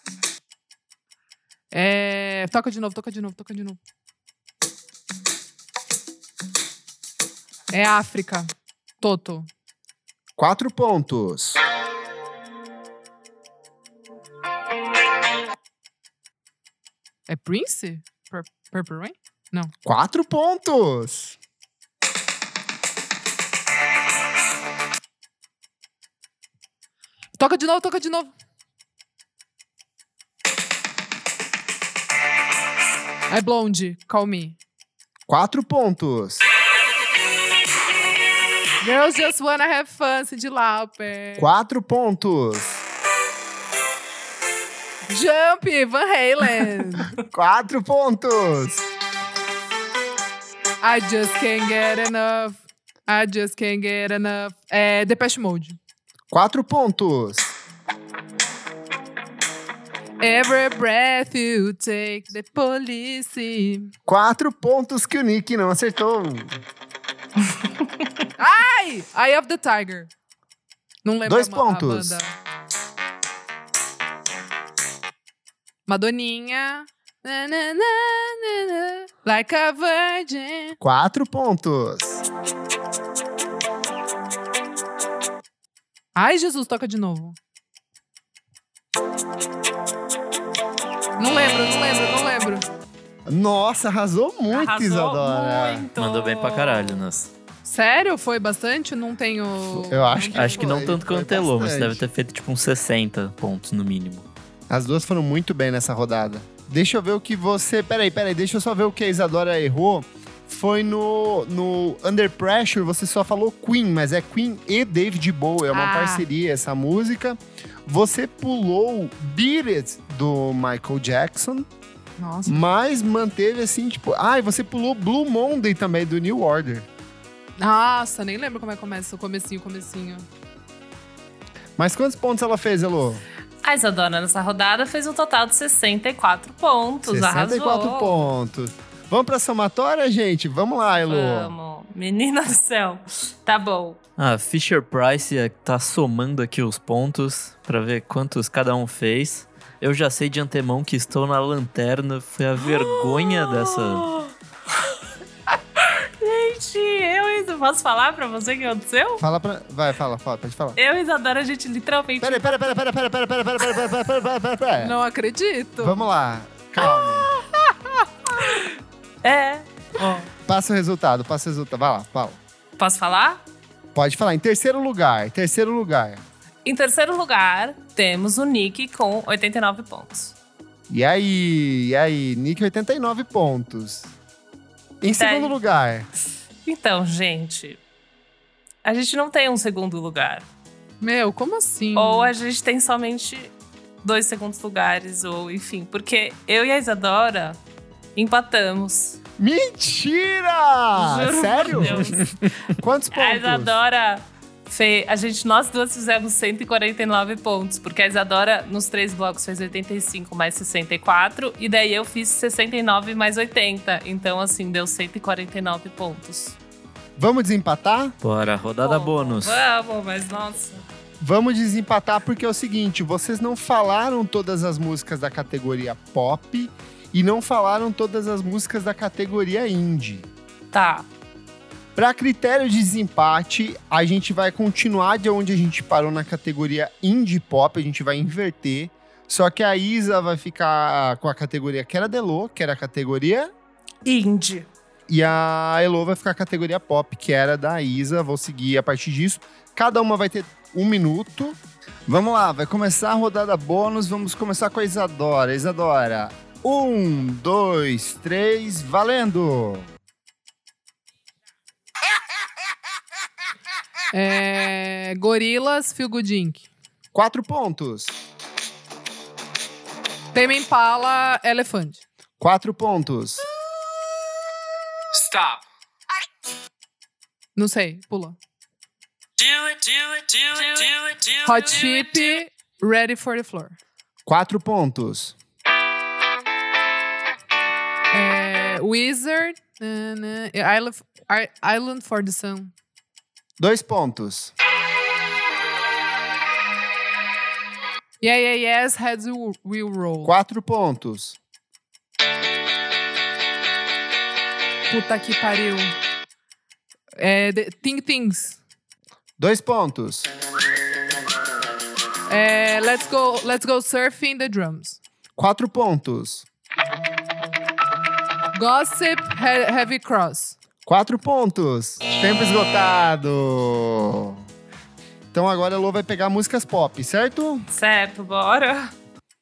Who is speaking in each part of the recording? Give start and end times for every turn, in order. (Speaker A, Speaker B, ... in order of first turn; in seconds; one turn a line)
Speaker A: 1.7-3.8
Speaker A: 7.7-9.5
Speaker B: 10.4-11.6
Speaker A: 17.3-19.7
Speaker B: 19.9-21.4
Speaker A: 27.4-28.3
Speaker A: 33.3-34.6
Speaker B: 35.3-36.5
Speaker A: 38.8-41.5
Speaker B: 41.4-42.8
Speaker A: 45.1-47.1
Speaker B: 47.2-48.9
Speaker A: 50.8-55.8
Speaker B: 56.3-57.5
Speaker A: 60.2-63.9
Speaker B: 64.1-66.6
Speaker A: 68.4-70.1
Speaker A: 71.0-72.3
Speaker B: 71.2-72.2
Speaker A: 75.9-80.8
Speaker B: 80.8-82.2
Speaker A: 86.2-87.4
Speaker A: 91.2-92.7
Speaker B: 93.3-95.9
Speaker C: 94.5-97.1
Speaker D: 96.0-97.3
Speaker A: 97.6-100.8
Speaker B: 99.9-102.0
Speaker D: 100.3-104.3
Speaker B: 104.7-121.7
Speaker A: 115.7-116.3
Speaker A: 122.2-122.6
Speaker B: 122.5-126.9
Speaker A: 127.6-130.3
Speaker B: 131.8-133.2
Speaker C: 133.6-138.3
Speaker B: 137.0-141.5
Speaker C: 141.1-144.0
Speaker D: 144.2-154.1
Speaker C: 152.6-154.3
Speaker C: 155.8-159.2
Speaker B: 159.2-160.8
Speaker C: 160.8-162.7
Speaker B: 162.2-165.0
Speaker A: 164.8-166.0
Speaker B: 165.8-167.3
Speaker C: 169.2-170.3
Speaker B: 170.5-172.4
Speaker C: 172.8-173.4
Speaker B: 173.9-176.2
Speaker C: 176.7-180.3
Speaker B: 180.9-184.2
Speaker B: 185.0-186.1
Speaker C: 185.2-185.6
Speaker C: 186.7-187.8
Speaker C: 188.8-190.5
Speaker A: 191.0-192.3
Speaker C: 191.9-197.6
Speaker C: 198.2-199.2
Speaker B: 199.4-203.8
Speaker C: 200.9-202.3
Speaker C: 203.1-216.6
Speaker B: 217.2-218.2
Speaker D: 218.2-219.6
Speaker C: 218.8-220.8
Speaker B: 221.2-230.3
Speaker C: 230.7-231.1
Speaker B: 232.0-243.5
Speaker C: 244.1-244.7
Speaker B: 245.1-259.9
Speaker A: 264.1-266.7
Speaker B: 267.1-268.2
Speaker A: 270.3-272.0
Speaker B: 272.4-273.4
Speaker E: 275.1-275.6
Speaker A: 277.6-278.4
Speaker E: 279.4-281.8
Speaker A: 281.4-283.8
Speaker B: 284.3-285.4
Speaker A: 288.1-292.7
Speaker B: 293.6-294.5
Speaker A: 298.2-300.4
Speaker B: 300.2-301.4
Speaker A: 304.9-305.9
Speaker A: 307.2-308.6
Speaker B: 309.4-310.3
Speaker A: 312.3-315.0
Speaker B: 315.4-316.5
Speaker A: 318.5-320.6
Speaker B: 320.9-324.5
Speaker B: 325.3-327.7
Speaker C: 327.7-328.9